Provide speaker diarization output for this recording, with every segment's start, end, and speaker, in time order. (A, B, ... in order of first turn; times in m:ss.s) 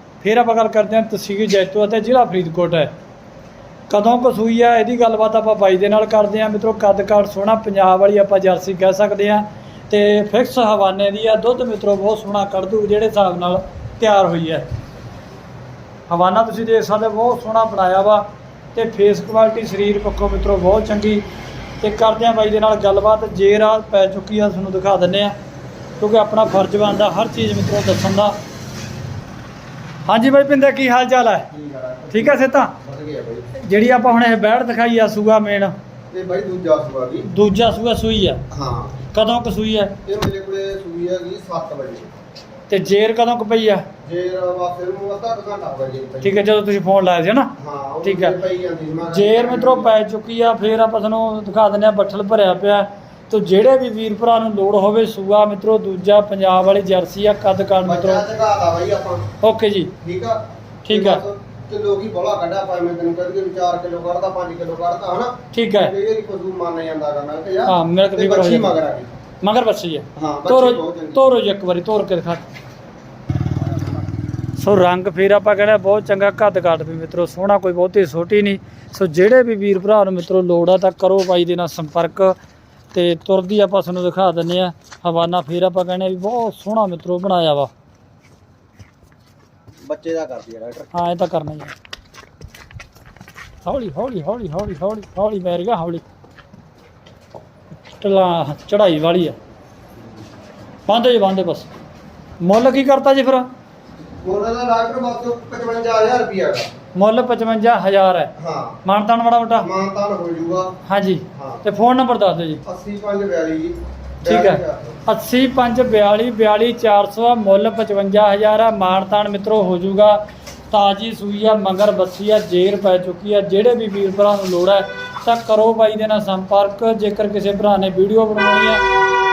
0:00.2-0:02.9 A
0:03.9-0:14.6 A
0:16.1-0:21.2 A
0:21.8-0:25.3 A
0:26.0-0:28.4 A
0:30.0-0:31.5 A
0:31.5-0:33.5 B
0:32.1-0:32.7 A
0:33.6-0:35.7 A
0:36.1-0:37.3 B
0:37.3-0:38.4 A
0:38.5-0:39.0 B
0:39.1-0:40.0 A
0:40.0-0:42.1 B
0:42.7-0:43.8 A
0:44.0-0:46.4 B
0:46.2-0:48.4 A
0:47.6-0:49.9 B
0:49.1-0:58.2 A
0:57.8-0:59.3 B
0:59.4-0:59.9 A
1:00.0-1:09.1 B
1:00.8-1:01.2 A
1:05.5-1:05.9 A
1:07.6-1:08.7 A
1:09.4-1:12.4 A
1:10.2-1:11.2 B
1:14.6-1:22.4 A
1:22.9-1:27.7 A
1:29.8-1:30.9 B
1:30.9-1:31.7 A
1:33.6-1:36.0 A
1:37.9-1:39.4 A
1:40.9-1:41.7 A
1:42.4-1:43.5 A
1:44.2-1:46.7 B
1:46.9-1:48.3 A
1:48.4-1:48.8 B
1:48.8-1:49.7 A
1:49.6-1:50.7 B
1:50.8-1:52.6 A
1:51.3-1:51.6 B
1:52.6-1:55.0 B
1:54.2-2:08.8 A